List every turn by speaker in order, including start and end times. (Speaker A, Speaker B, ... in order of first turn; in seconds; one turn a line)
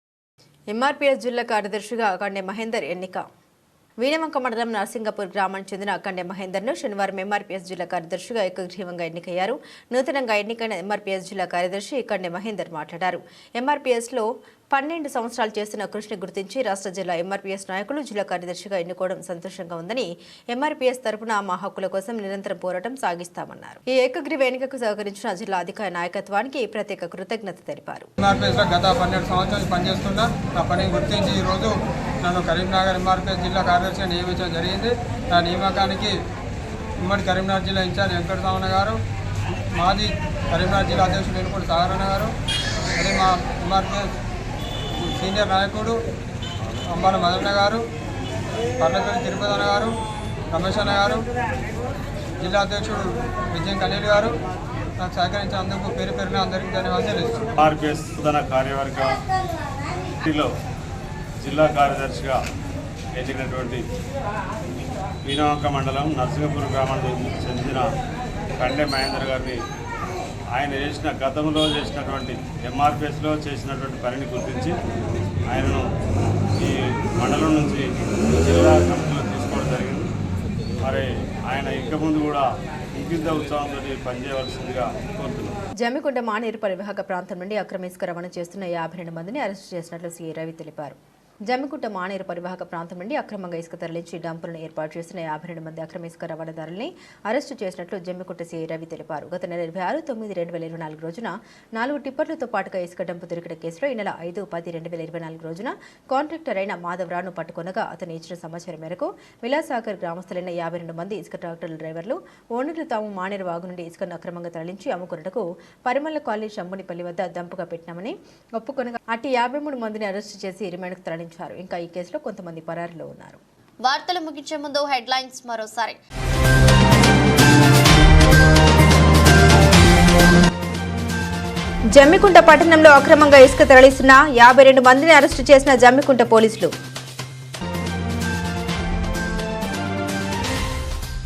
Speaker A: 0.7-3.2
Speaker A: 4.0-28.1
Speaker B: 28.2-36.2
Speaker B: 37.0-39.0
Speaker B: 39.7-42.3
Speaker B: 43.0-44.1
Speaker B: 45.0-46.0
Speaker B: 46.9-47.8
Speaker B: 48.8-49.9
Speaker B: 50.5-51.2
Speaker B: 52.4-54.3
Speaker B: 55.0-57.5
Speaker C: 57.6-59.2
Speaker C: 60.2-60.5
Speaker C: 61.4-62.4
Speaker C: 63.1-63.8
Speaker C: 65.2-67.9
Speaker C: 68.6-69.6
Speaker C: 70.5-74.7
Speaker C: 75.5-75.9
Speaker C: 76.6-80.1
Speaker C: 80.8-85.5
Speaker A: 85.8-91.0
Speaker A: 91.5-123.4
Speaker D: 123.8-126.0
Speaker A: 131.9-136.7